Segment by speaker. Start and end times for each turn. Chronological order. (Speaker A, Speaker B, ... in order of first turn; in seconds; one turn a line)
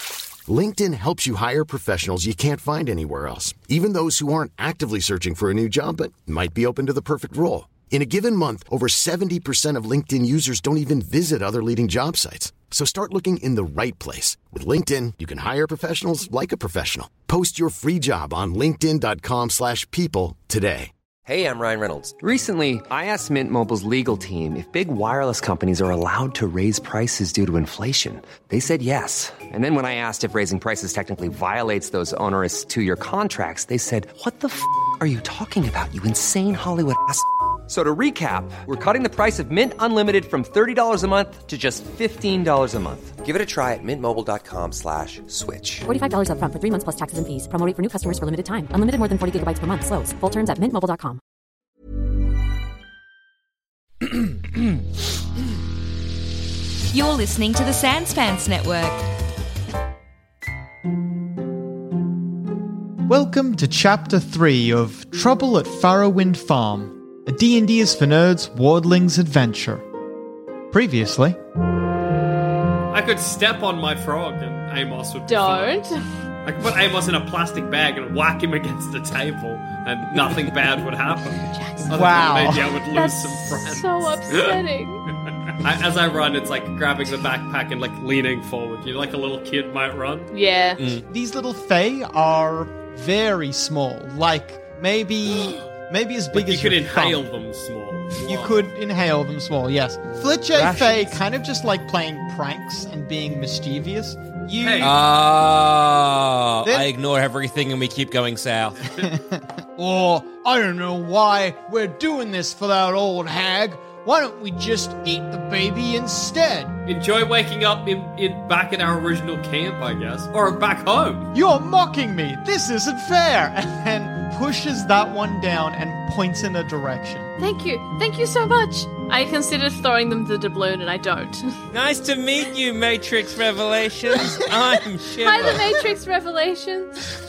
Speaker A: 0.5-20.9
Speaker B: 21.3-45.9
Speaker C: 45.9-51.2
Speaker D: 56.9-59.1
Speaker E: 63.1-69.8
Speaker E: 70.7-71.4
Speaker F: 72.9-75.8
Speaker G: 75.3-76.0
Speaker F: 76.4-84.6
Speaker G: 81.5-82.2
Speaker E: 81.8-82.7
Speaker G: 82.9-85.0
Speaker F: 85.5-90.3
Speaker G: 90.3-90.8
Speaker H: 90.8-91.0
Speaker E: 91.1-97.2
Speaker F: 96.3-98.6
Speaker E: 98.2-105.0
Speaker H: 100.5-101.2
Speaker F: 104.6-104.9
Speaker H: 104.8-108.9
Speaker E: 109.0-116.7
Speaker F: 116.9-121.3
Speaker E: 121.3-127.3
Speaker G: 127.4-131.5
Speaker H: 131.7-135.8
Speaker G: 135.2-137.1